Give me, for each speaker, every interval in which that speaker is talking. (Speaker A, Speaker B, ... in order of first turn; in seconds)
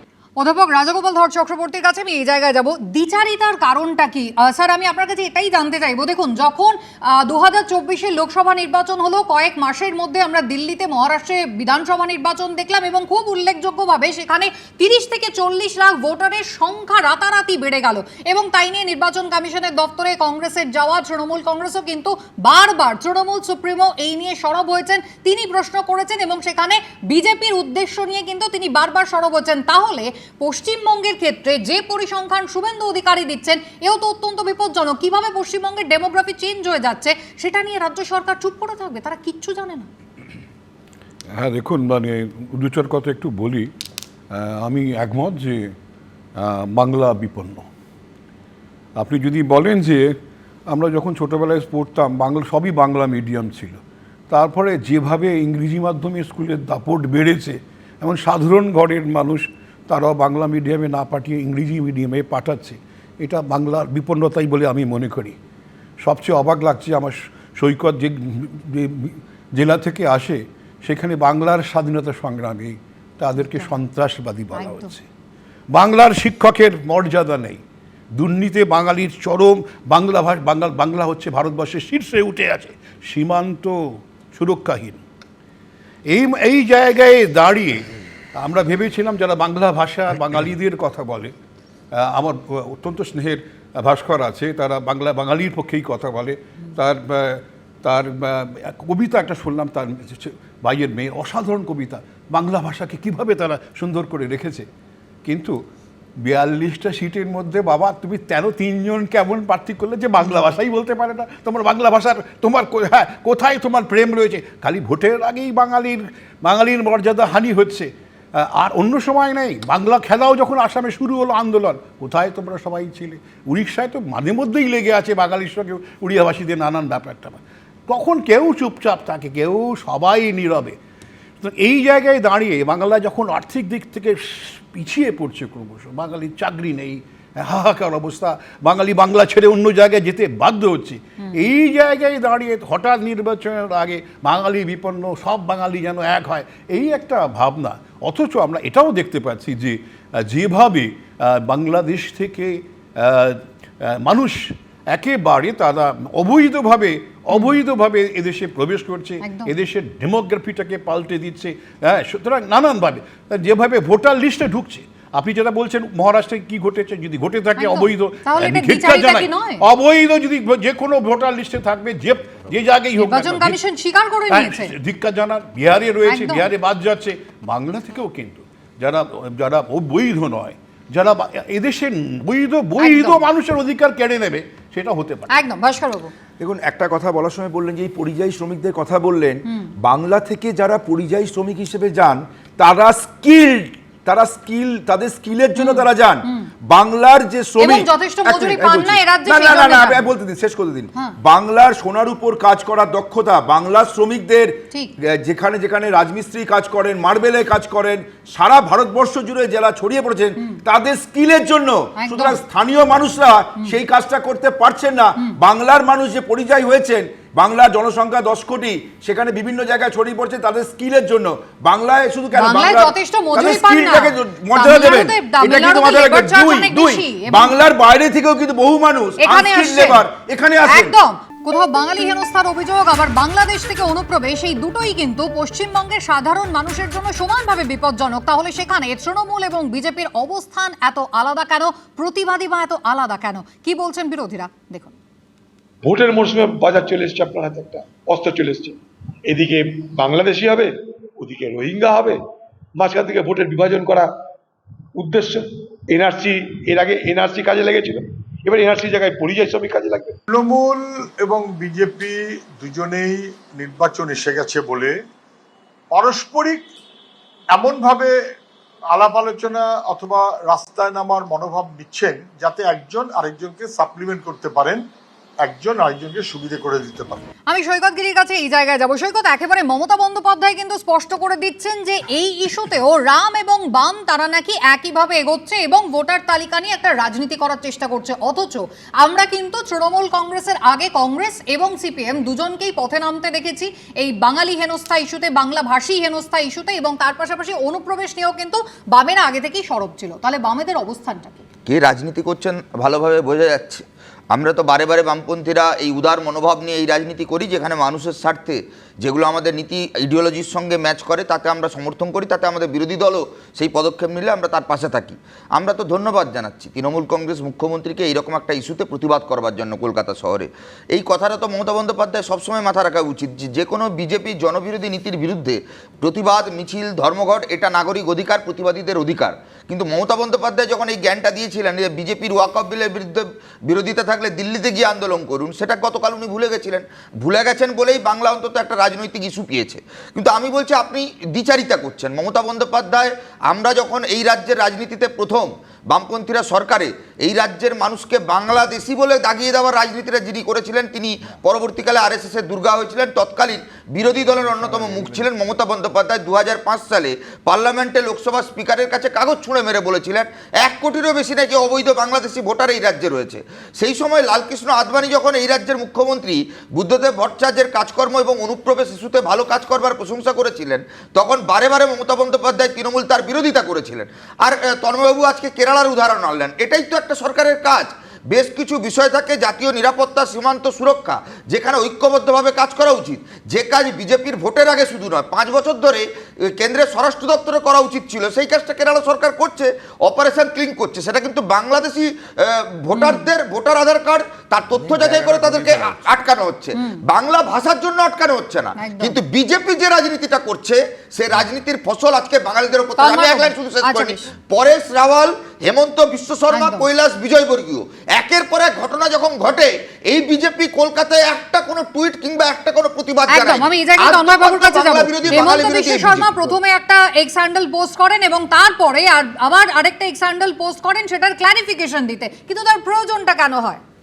Speaker A: 0.4-39.9, 73.4-73.7, 74.5-74.9, 159.2-159.5, 167.6-169.6, 173.0-174.7, 176.1-176.5, 182.8-183.2, 185.3-186.1, 195.6-196.5, 197.6-200.1, 212.0-212.4, 222.3-227.6, 229.2-230.0, 230.7-244.9, 277.5-301.5, 392.9-393.2, 398.8-399.2, 403.0-404.3, 406.5-406.8, 413.3-423.8
Speaker B: 41.3-43.7, 44.3-45.7, 46.4-47.7, 49.0-50.1, 50.7-65.3, 66.0-75.0, 75.7-77.6, 78.2-85.0, 86.1-91.3, 91.9-104.7, 105.2-105.6, 106.2-130.8, 131.4-173.6, 174.3-185.3
Speaker C: 186.4-230.9, 354.3-355.2, 394.8-396.0, 415.3-415.6
Speaker D: 245.8-252.2, 252.8-254.1, 255.0-260.2
Speaker E: 260.3-265.0, 265.9-266.7, 267.5-268.1, 268.9-274.8, 275.4-277.2
Speaker F: 301.7-416.3